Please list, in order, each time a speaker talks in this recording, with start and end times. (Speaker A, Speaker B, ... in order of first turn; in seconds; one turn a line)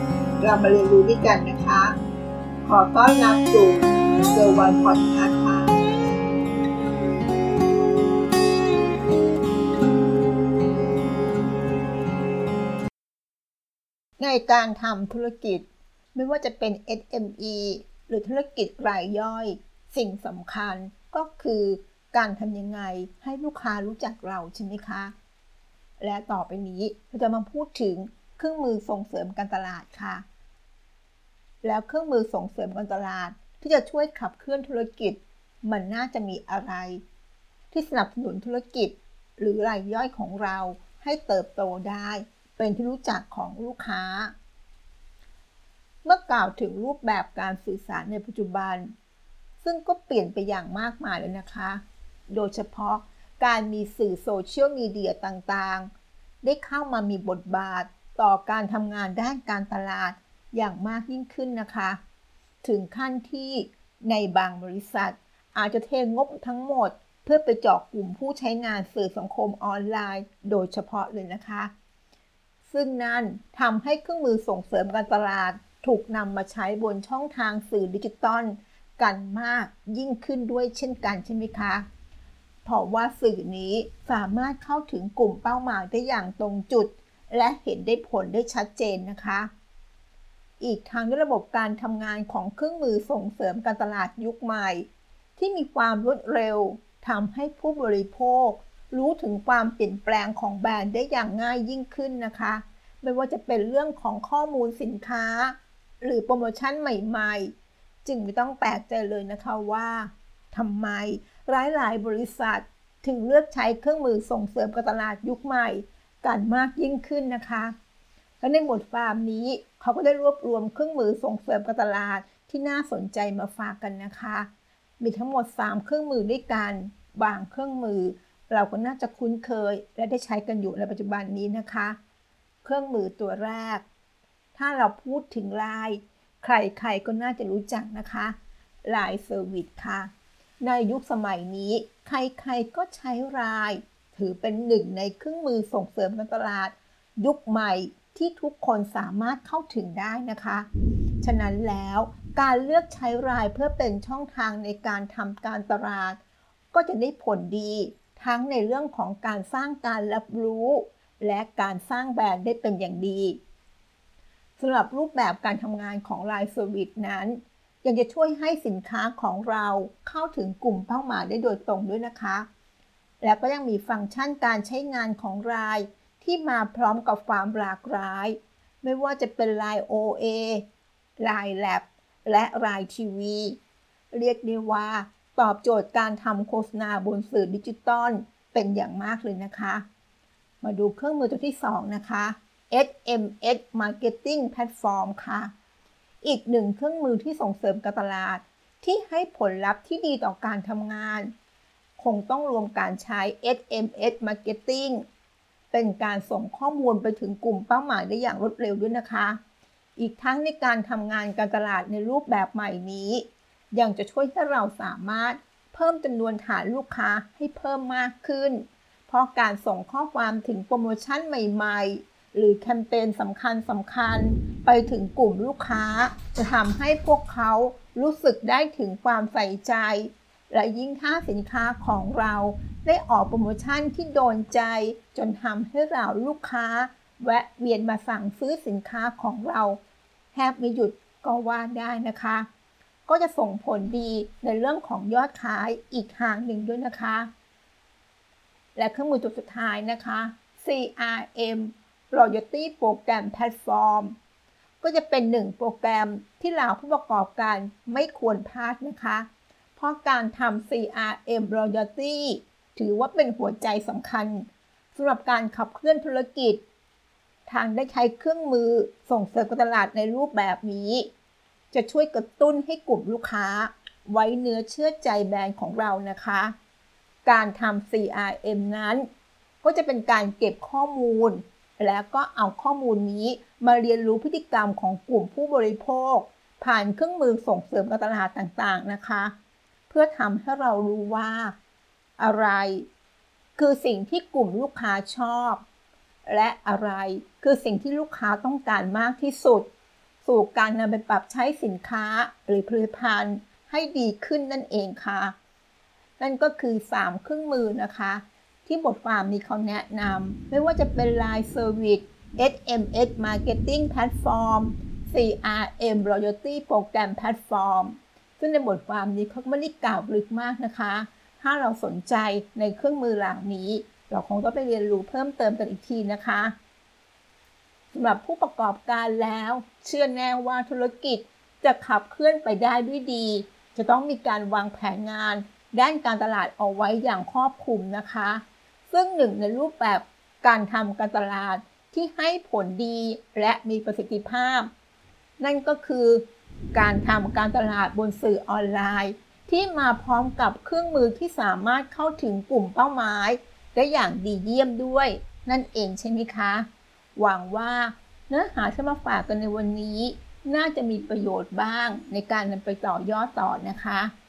Speaker A: 0.4-2.0
Speaker A: 2.6-5.8
Speaker A: 14.2-25.1
Speaker A: 26.0-30.2
Speaker A: 31.6-37.0
Speaker A: 37.7-44.3
Speaker A: 46.0-48.9
Speaker A: 49.6-55.9
Speaker A: 56.4-62.0
Speaker A: 62.6-71.7
Speaker A: 72.7-81.9
Speaker A: 82.7-89.5
Speaker A: 90.6-94.9
Speaker A: 95.4-107.5
Speaker A: 108.0-117.8
Speaker A: 118.4-124.5
Speaker A: 125.0-132.0
Speaker A: 132.6-133.8
Speaker A: 134.6-150.7
Speaker A: 151.2-156.2
Speaker A: 156.7-163.4
Speaker A: 164.6-172.5
Speaker A: 173.2-180.6
Speaker A: 181.2-183.6
Speaker A: 184.1-189.8
Speaker A: 190.6-195.5
Speaker A: 196.2-201.3
Speaker A: 202.0-205.1
Speaker A: 205.7-209.4
Speaker A: 210.0-239.8
Speaker A: 240.3-242.5
Speaker A: 243.1-247.3
Speaker A: 248.8-254.2
Speaker A: 254.8-266.6
Speaker A: 267.5-271.1
Speaker A: 271.7-276.5
Speaker A: 277.2-279.1
Speaker A: 279.6-289.3
Speaker A: 289.9-291.6
Speaker A: 292.2-292.9
Speaker A: 293.6-295.6
Speaker A: 296.2-299.7
Speaker A: 300.2-305.4
Speaker A: 306.2-326.6
Speaker A: 327.9-344.7
Speaker A: 345.4-364.1